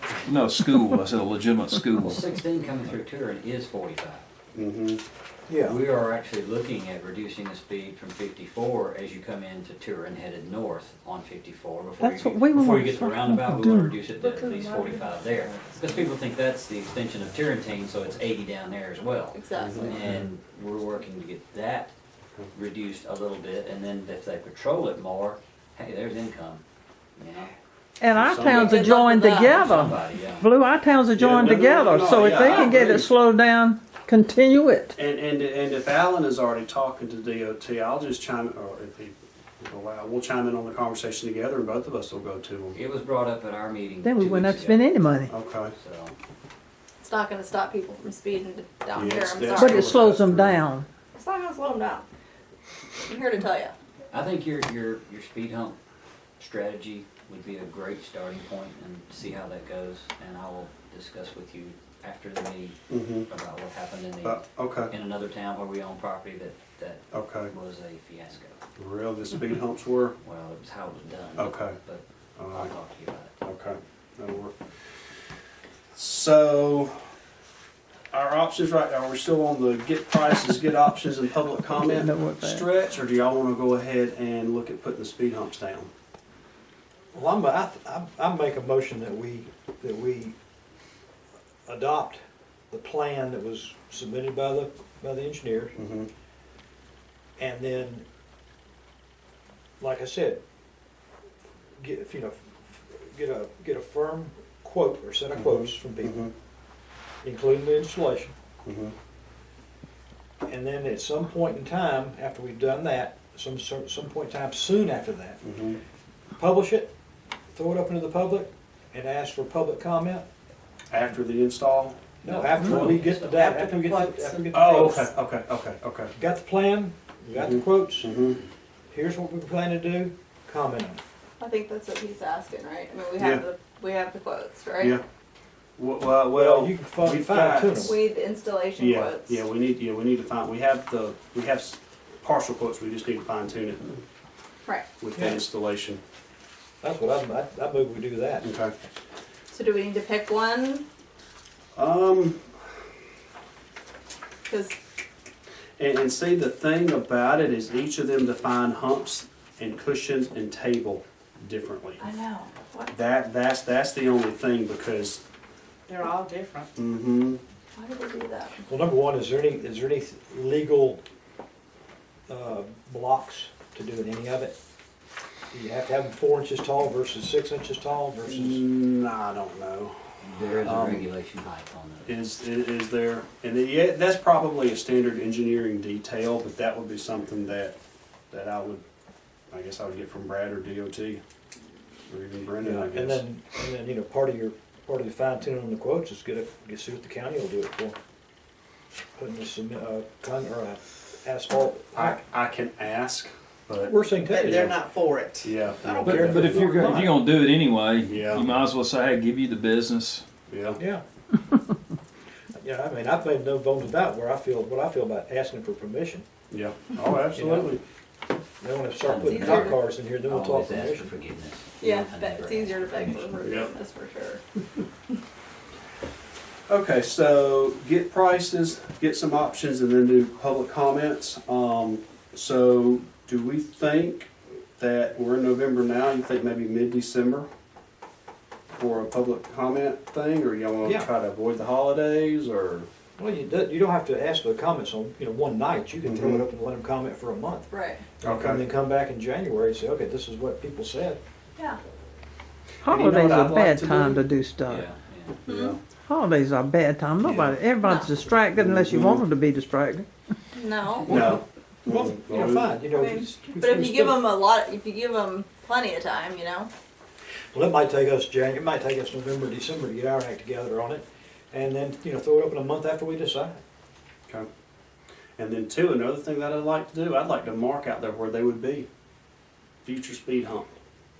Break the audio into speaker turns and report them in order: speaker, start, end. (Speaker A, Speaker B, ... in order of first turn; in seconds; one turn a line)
Speaker A: 0.2-2.2
Speaker B: 2.0-4.2
Speaker C: 4.5-5.0
Speaker D: 5.5-5.8
Speaker B: 5.6-21.9
Speaker E: 12.0-14.0
Speaker F: 19.3-20.0
Speaker C: 19.6-20.2
Speaker B: 22.5-26.6
Speaker B: 27.2-27.5
Speaker E: 28.0-35.0
Speaker C: 28.1-28.8
Speaker F: 28.5-29.7
Speaker B: 29.5-30.5
Speaker C: 31.1-33.1
Speaker C: 35.0-42.8
Speaker B: 42.7-44.9
Speaker E: 44.0-45.3
Speaker C: 45.3-45.7
Speaker B: 45.7-46.1
Speaker F: 47.0-50.1
Speaker C: 48.9-50.6
Speaker E: 49.5-50.9
Speaker F: 51.1-52.0
Speaker F: 53.1-53.7
Speaker B: 54.1-55.8
Speaker B: 56.4-68.5
Speaker C: 62.9-63.3
Speaker C: 64.2-64.9
Speaker C: 67.1-67.5
Speaker C: 68.8-70.2
Speaker B: 70.2-73.3
Speaker C: 71.4-71.8
Speaker C: 72.4-72.7
Speaker C: 73.4-74.5
Speaker C: 75.9-77.0
Speaker C: 78.1-85.9
Speaker E: 81.7-82.7
Speaker D: 87.1-90.3
Speaker D: 91.7-95.8
Speaker C: 95.8-96.1
Speaker D: 97.4-98.0
Speaker D: 99.8-100.4
Speaker D: 101.8-106.3
Speaker C: 105.3-106.3
Speaker D: 107.2-108.3
Speaker C: 108.6-108.9
Speaker D: 110.5-115.4
Speaker C: 115.4-115.8
Speaker D: 116.3-116.9
Speaker D: 117.5-120.2
Speaker C: 120.9-122.0
Speaker D: 122.2-125.1
Speaker B: 122.2-124.5
Speaker C: 122.7-123.0
Speaker C: 124.5-126.1
Speaker D: 126.2-128.1
Speaker C: 127.3-128.4
Speaker D: 128.9-131.0
Speaker F: 131.4-135.0
Speaker C: 133.2-133.4
Speaker C: 135.8-137.9
Speaker D: 136.3-137.9
Speaker F: 137.8-139.4
Speaker C: 138.8-144.0
Speaker C: 145.0-146.0
Speaker D: 145.2-145.4
Speaker D: 146.8-148.4
Speaker C: 148.4-148.7
Speaker F: 149.5-150.8
Speaker C: 151.7-152.4
Speaker F: 154.5-154.7
Speaker C: 155.8-162.0
Speaker F: 162.0-162.9
Speaker C: 162.9-165.2
Speaker G: 165.9-166.7
Speaker C: 166.8-167.4
Speaker F: 167.8-168.6
Speaker D: 168.7-171.0
Speaker D: 172.3-174.6
Speaker D: 175.5-178.6
Speaker C: 178.2-179.9
Speaker B: 180.2-182.1
Speaker C: 180.6-181.1
Speaker C: 182.1-187.8
Speaker C: 188.3-188.8
Speaker C: 189.5-191.2
Speaker C: 192.1-193.2
Speaker D: 192.6-198.0
Speaker D: 199.2-202.2
Speaker C: 201.9-204.8
Speaker D: 203.8-204.7
Speaker G: 204.3-206.7
Speaker C: 205.4-207.0
Speaker A: 206.0-210.2
Speaker D: 206.1-207.2
Speaker C: 208.1-208.5
Speaker C: 210.5-210.8
Speaker D: 210.8-211.0
Speaker D: 212.6-216.2
Speaker C: 216.5-217.8
Speaker D: 217.3-217.8
Speaker D: 218.6-221.1
Speaker B: 219.0-223.4
Speaker F: 219.3-219.8
Speaker F: 221.8-224.4
Speaker C: 223.4-223.7
Speaker C: 226.7-237.5
Speaker C: 238.8-242.9
Speaker D: 240.8-241.1
Speaker D: 243.2-251.2
Speaker C: 246.0-246.4
Speaker F: 247.7-248.0
Speaker C: 248.2-248.6
Speaker E: 252.8-254.9
Speaker C: 252.8-254.2
Speaker B: 254.7-255.4
Speaker F: 255.4-255.8
Speaker C: 255.5-255.8
Speaker E: 256.1-260.1
Speaker C: 257.2-257.6
Speaker F: 257.8-258.1
Speaker C: 258.5-259.2
Speaker F: 260.5-261.1
Speaker C: 261.1-262.8
Speaker D: 261.1-264.2
Speaker F: 262.9-266.7
Speaker D: 267.5-273.6
Speaker C: 275.4-278.9
Speaker C: 279.8-280.7